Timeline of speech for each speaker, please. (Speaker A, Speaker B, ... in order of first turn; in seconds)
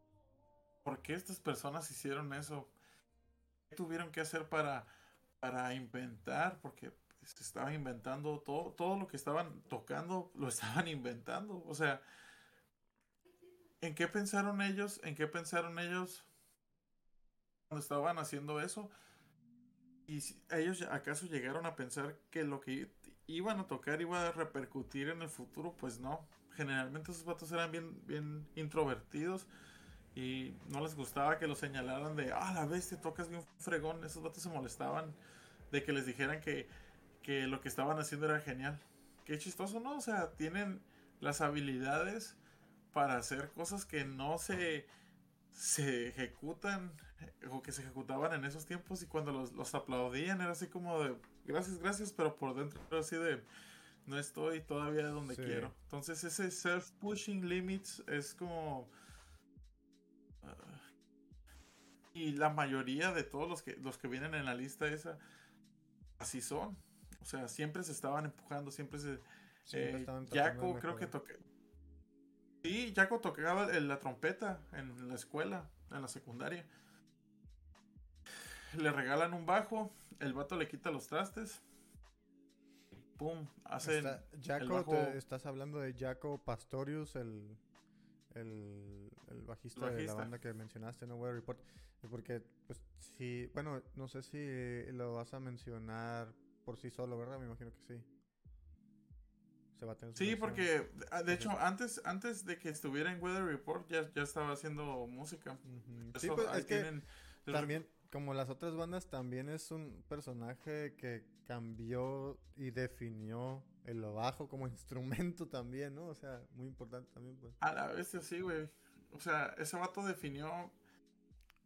Speaker A: 0.8-2.7, 3.7-4.9, 5.4-12.0, 13.8-16.3, 17.7-18.9, 20.1-29.5, 30.1-35.2, 35.7-36.7, 37.2-42.4, 42.9-44.9, 45.5-53.5, 54.1-58.9, 60.4-60.9, 62.1-65.2, 66.2-71.4, 72.6-76.7, 78.7-81.6, 83.2-85.2, 89.8-90.3, 100.2-105.6, 106.2-107.7, 117.6-120.8
Speaker B: 55.3-55.7, 69.7-71.1, 83.8-87.6, 88.3-98.1, 99.8-100.7, 105.6-106.9, 107.5-117.6